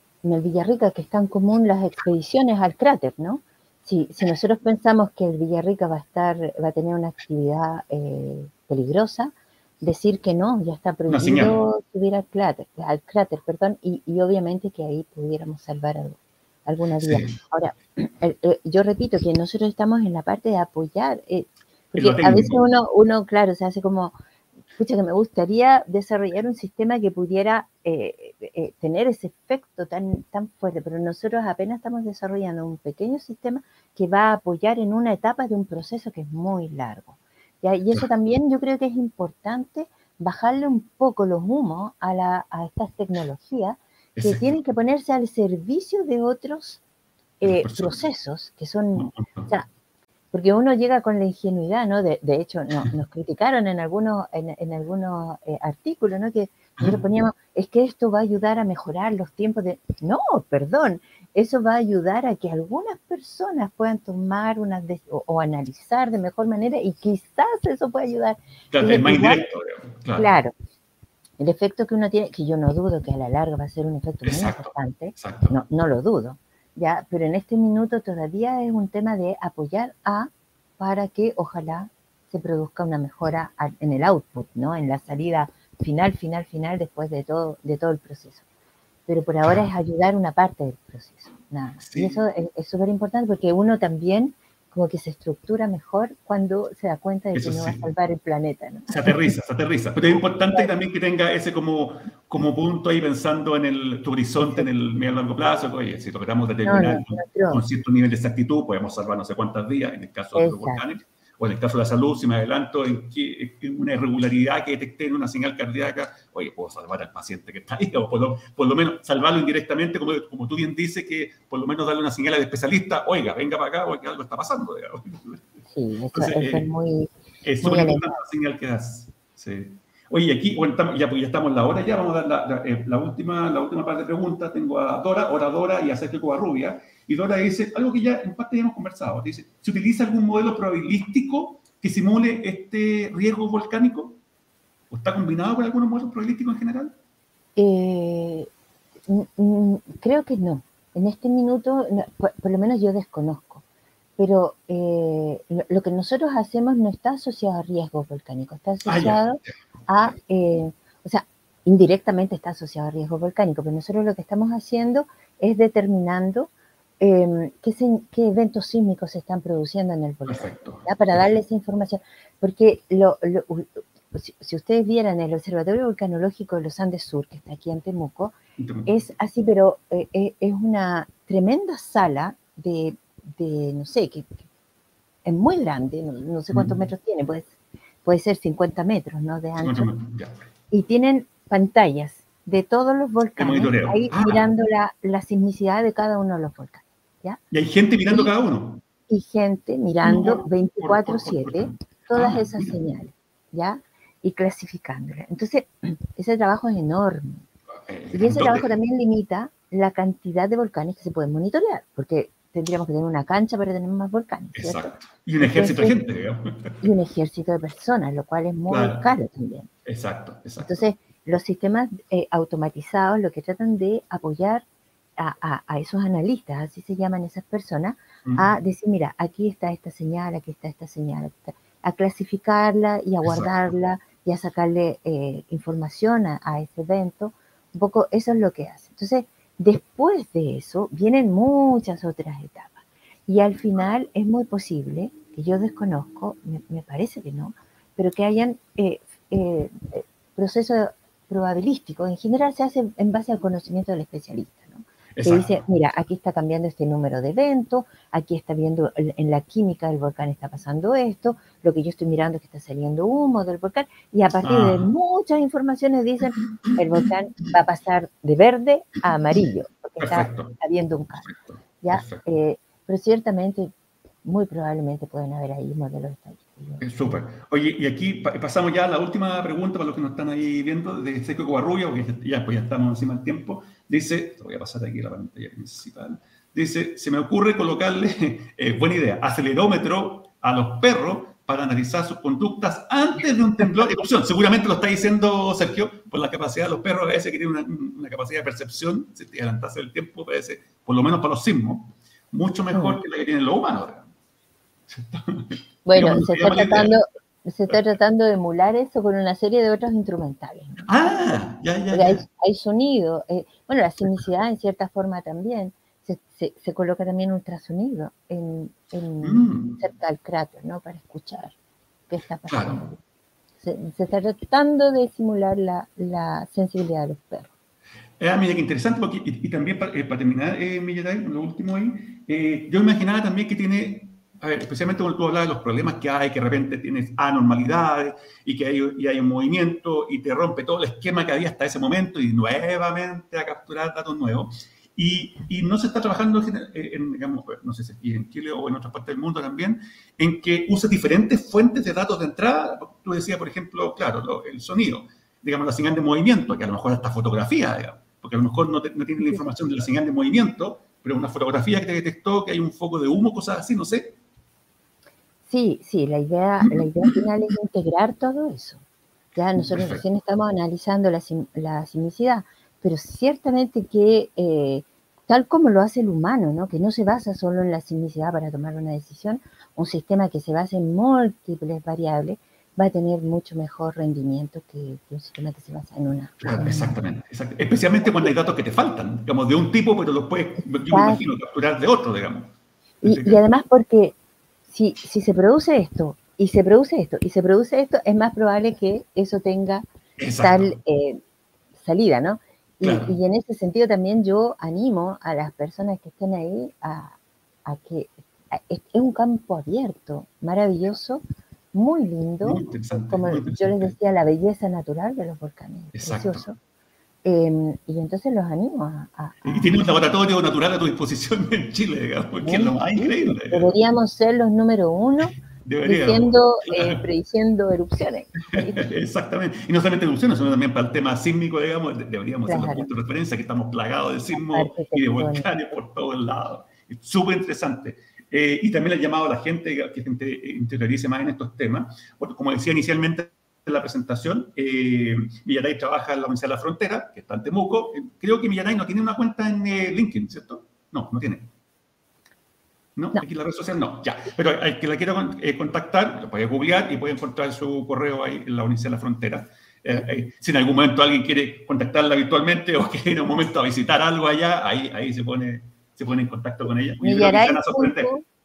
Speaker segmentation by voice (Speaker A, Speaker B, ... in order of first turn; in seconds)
Speaker A: 0.2-24.1, 24.8-46.8, 47.4-49.7, 50.3-69.5, 70.2-70.5, 71.4-88.4, 89.1-99.3, 100.1-100.7, 106.7-107.6, 110.3-110.8, 125.7-127.1, 127.6-128.2, 147.6-148.5, 149.1-153.6, 154.2-178.3, 178.9-184.4, 185.2-187.5, 188.1-189.9, 190.7-197.4, 199.1-207.4, 208.1-216.0, 216.8-219.7, 220.6-224.6, 225.2-271.3, 271.8-273.7, 274.2-276.9, 302.7-303.0, 305.9-310.9, 311.9-321.6, 322.1-323.0, 323.6-327.5, 359.2-359.5, 365.5-368.8, 369.4-387.0, 388.0-388.3, 390.7-391.2, 393.0-394.1, 394.7-399.9, 400.4-401.2, 401.8-411.2, 411.7-416.6, 417.2-419.8, 422.4-428.9, 432.5-432.9, 434.3-435.5, 467.0-468.2
Speaker B: 11.1-11.6, 17.0-17.4, 22.0-22.6, 44.2-44.6, 47.4-48.1, 49.0-49.6, 68.7-70.3, 74.2-75.6, 89.4-89.7, 91.8-92.2, 97.3-97.8, 98.9-125.5, 126.1-126.7, 127.4-144.2, 144.9-146.9, 158.8-160.2, 170.3-171.3, 178.6-178.9, 186.5-186.8, 189.6-190.5, 193.4-194.4, 197.5-198.8, 200.0-202.8, 207.7-208.8, 214.6-216.8, 218.7-219.1, 219.9-220.8, 233.2-233.6, 255.2-255.6, 264.4-264.9, 270.0-270.6, 271.2-272.2, 276.8-304.1, 304.9-306.9, 310.8-312.3, 319.2-319.8, 322.5-322.9, 328.2-364.2, 366.6-367.1, 369.6-370.0, 386.4-392.5, 393.0-393.4, 400.2-400.8, 402.8-403.2, 412.4-414.0, 415.9-416.5, 419.4-423.7, 425.2-427.0, 428.5-451.5, 453.0-468.1